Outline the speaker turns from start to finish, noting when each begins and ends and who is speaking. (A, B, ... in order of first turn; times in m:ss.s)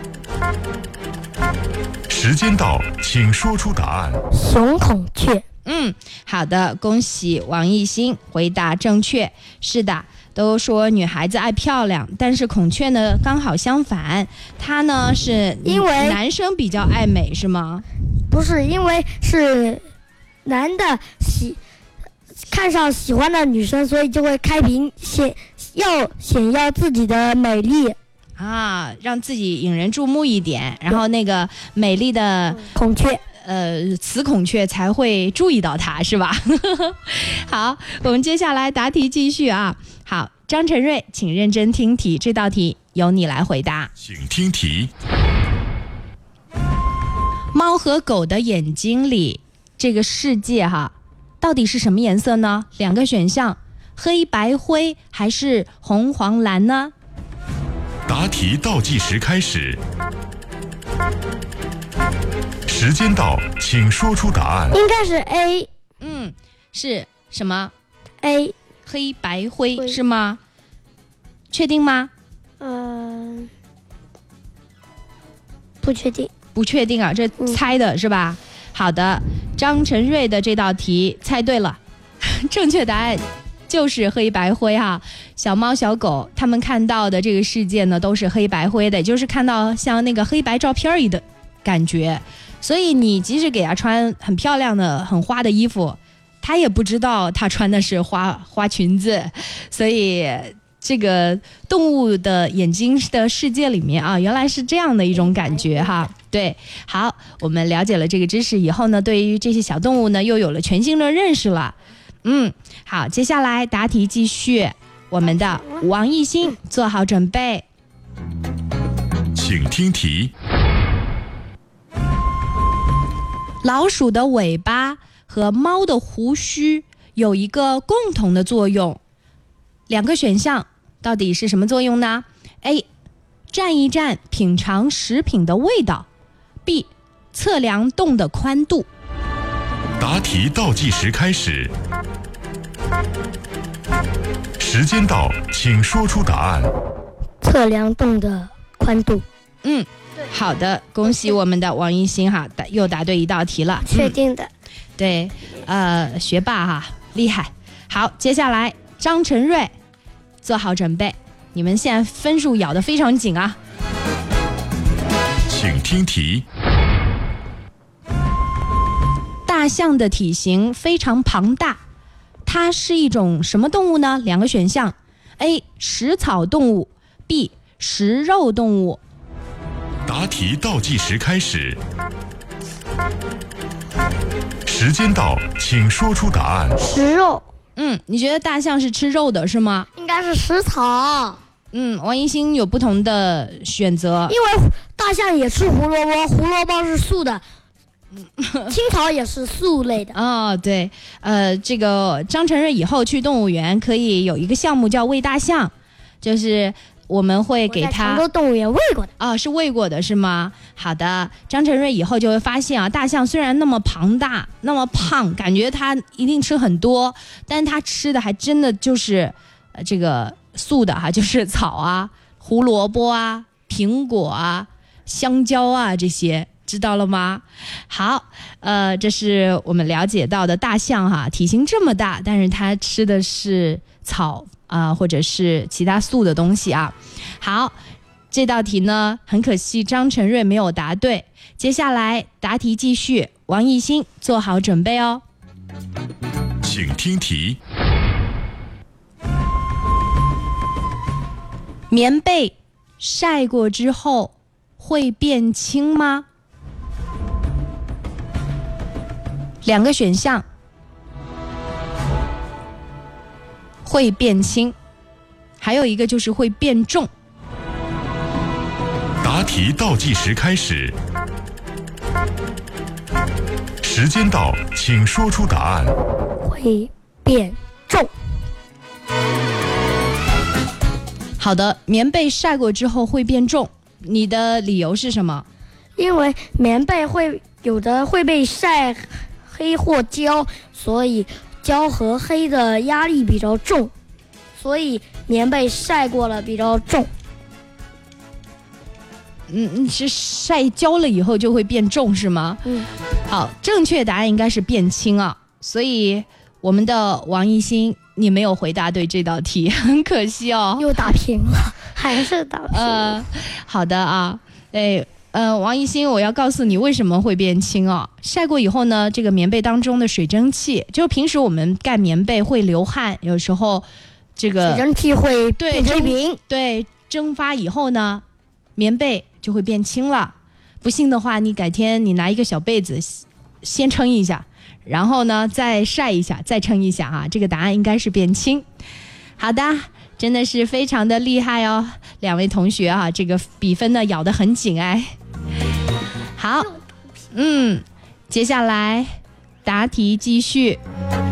0:02.1-0:04.2 A
0:04.3-0:05.4 B
0:05.7-0:17.8 C
0:15.6-0:16.2 B
0:18.3-0:19.8 B
0:20.4-0:21.6 B
0:22.5-0:28.0 B
0:28.4-0:32.7 C
0:32.6-0:33.2 B
0:33.4-0:43.9 C
0:44.0-0:44.9 A
0:47.5-0:56.9 C
0:58.1-0:59.8 A
1:02.7-1:04.8 A
1:04.7-1:05.7 B
1:06.0-1:07.7 C
1:08.2-1:08.5 B
1:08.9-1:10.4 C
1:11.5-1:12.1 C
1:12.6-1:13.5 B
1:15.8-1:16.3 B
1:16.6-1:57.6 C
1:45.2-1:45.9 B
1:59.4-2:00.3 A
2:03.6-2:09.0 C
2:09.9-2:12.8 C
2:13.5-2:16.1 C
2:16.7-2:18.9 C
2:20.0-2:21.7 A
2:24.6-2:26.7 A
2:27.4-2:29.2 B
2:29.6-2:34.2 C
2:33.8-2:34.5 B
2:35.0-2:39.7 C
2:40.4-2:43.6 C
2:45.5-2:46.4 A
2:49.5-2:51.8 C
2:52.4-2:59.0 C
3:00.1-3:01.8 A
3:04.7-3:06.8 A
3:06.8-3:07.4 B
3:07.8-3:09.9 C
3:10.0-3:11.4 B
3:11.7-3:14.3 C
3:14.3-3:17.4 B
3:18.4-3:18.7 C
3:18.7-3:20.2 B
3:20.1-3:28.2 C
3:27.7-3:29.1 B
3:29.2-3:57.8 C
3:58.3-4:05.2 C
4:06.6-4:07.6 A
4:11.9-4:16.3 C
4:19.6-4:20.4 C
4:23.9-4:24.8 C
4:25.6-4:27.1 C
4:29.2-4:31.0 A
4:33.8-4:36.0 A
4:36.4-4:38.1 B
4:41.4-4:45.5 C
4:46.0-4:53.9 B
4:54.6-4:57.1 B
4:59.5-5:02.6 C
5:03.3-5:11.1 C
5:10.8-5:13.1 B
5:12.7-5:23.9 C
5:24.4-5:24.8 C
5:24.6-5:26.4 B
5:25.6-5:28.2 C
5:28.8-5:38.7 C
5:39.4-5:45.1 C
5:46.4-5:46.7 C
5:47.3-5:50.8 C